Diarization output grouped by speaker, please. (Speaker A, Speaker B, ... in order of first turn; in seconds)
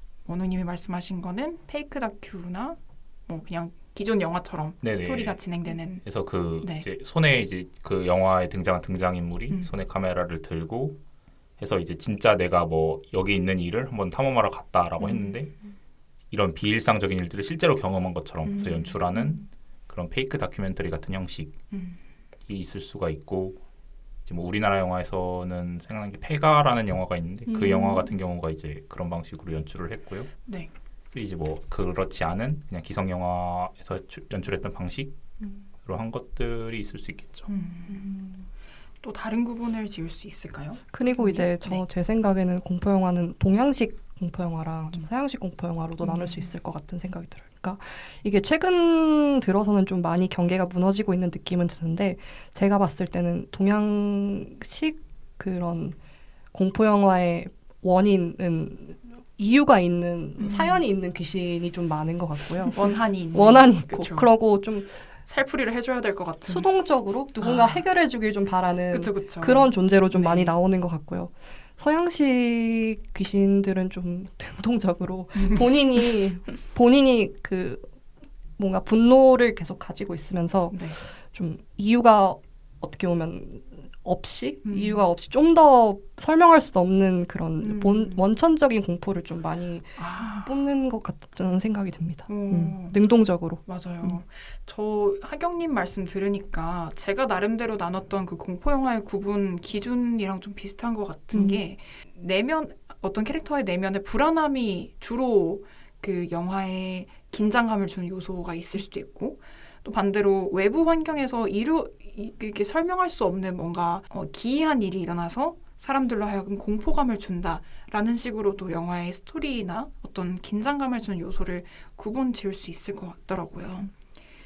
Speaker A: 0.2-6.9, 9.5-9.7, 15.0-15.4, 18.4-19.4, 21.7-22.0, 30.4-30.7, 37.5-38.4, 39.0-41.8, 46.0-46.6, 60.4-60.8, 62.7-64.4, 65.2-66.7, 67.4-67.9, 68.9-70.6, 75.3-75.7, 80.7-81.0, 84.6-85.1, 87.6-88.3, 90.0-90.6, 92.3-93.1, 93.7-123.9
Speaker B: 4.8-5.4, 6.0-11.0, 11.6-15.6, 16.3-21.6, 22.5-23.6, 24.3-30.3, 31.1-35.2, 35.8-37.5
Speaker C: 27.5-28.1, 40.9-56.0, 56.5-62.8, 63.3-65.1, 66.5-77.9, 78.6-94.2, 101.3-101.6